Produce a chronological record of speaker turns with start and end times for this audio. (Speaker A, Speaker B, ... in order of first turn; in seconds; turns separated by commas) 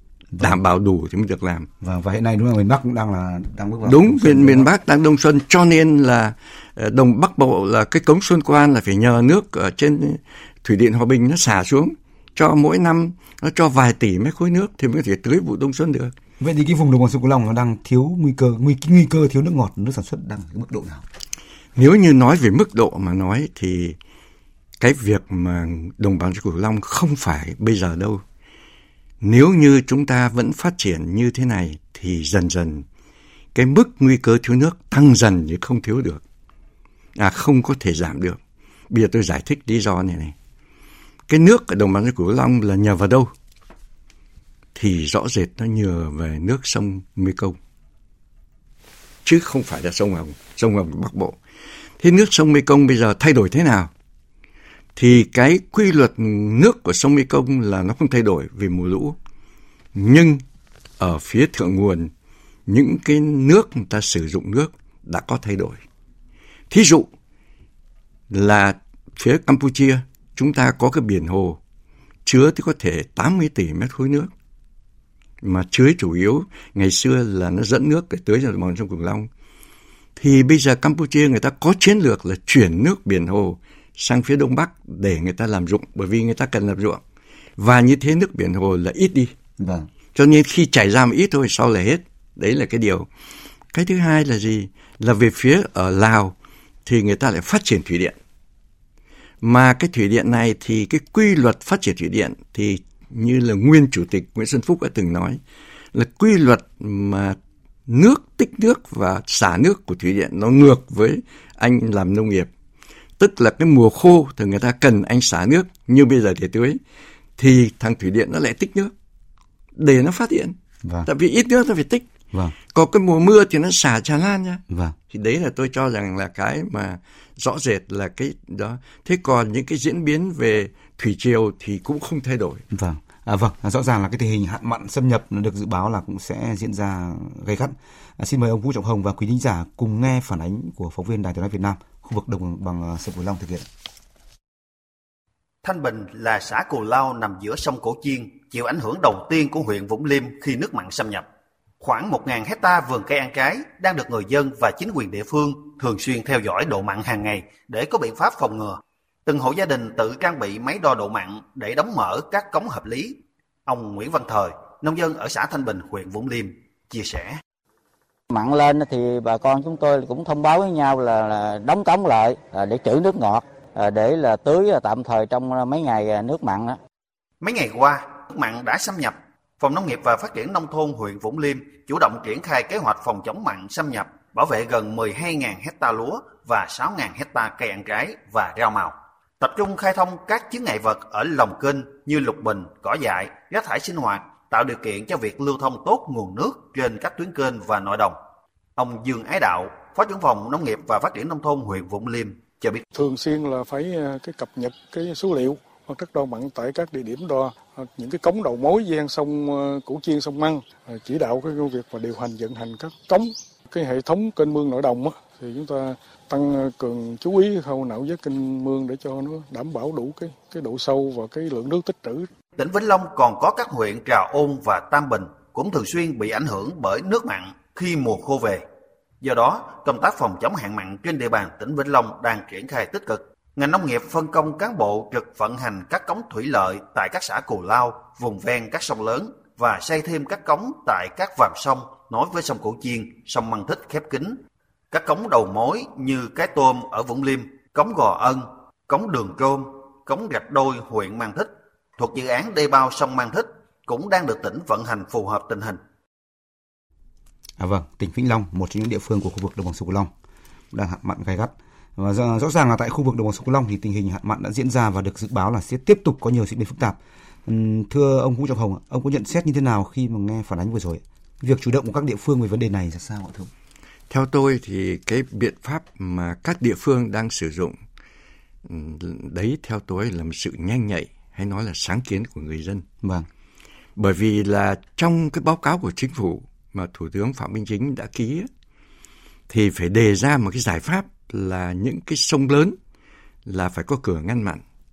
Speaker A: 0.3-0.6, Speaker B: 0.4-1.7, Speaker A: 1.8-4.7, Speaker B: 3.9-16.1, Speaker A: 16.4-21.1, Speaker B: 21.8-24.0, Speaker B: 24.8-28.2, Speaker B: 29.2-32.9, Speaker B: 33.5-36.2, Speaker B: 37.2-38.4, Speaker B: 38.9-40.4, Speaker B: 41.3-43.3, Speaker B: 44.8-47.6, Speaker B: 49.2-51.4, Speaker B: 52.0-53.9, Speaker B: 55.0-59.2, Speaker B: 59.9-60.4, Speaker B: 61.0-62.1, Speaker B: 62.7-65.8, Speaker B: 66.7-67.1, Speaker B: 68.3-71.6, Speaker B: 72.2-74.3, Speaker B: 75.4-79.3, Speaker B: 80.2-87.0, Speaker B: 87.6-89.3, Speaker A: 89.6-89.9, Speaker B: 90.1-93.1, Speaker B: 93.7-96.3, Speaker B: 96.9-98.2, Speaker B: 99.4-105.4, Speaker B: 105.9-112.5, Speaker B: 113.2-116.8, Speaker B: 117.4-118.9, Speaker B: 119.8-122.1, Speaker B: 122.7-132.6, Speaker A: 124.7-124.9, Speaker A: 132.7-143.7, Speaker C: 145.6-151.2, Speaker C: 151.8-167.4, Speaker D: 168.3-176.8, Speaker C: 177.4-198.2, Speaker C: 198.8-202.8, Speaker E: 202.9-222.3, Speaker C: 222.6-228.6, Speaker C: 229.2-244.4, Speaker C: 244.9-255.8, Speaker A: 257.6-260.1, Speaker A: 260.7-273.5, Speaker B: 274.1-277.8, Speaker B: 278.6-282.8, Speaker A: 283.0-283.3, Speaker B: 283.9-288.5, Speaker B: 289.5-292.8, Speaker B: 293.4-294.6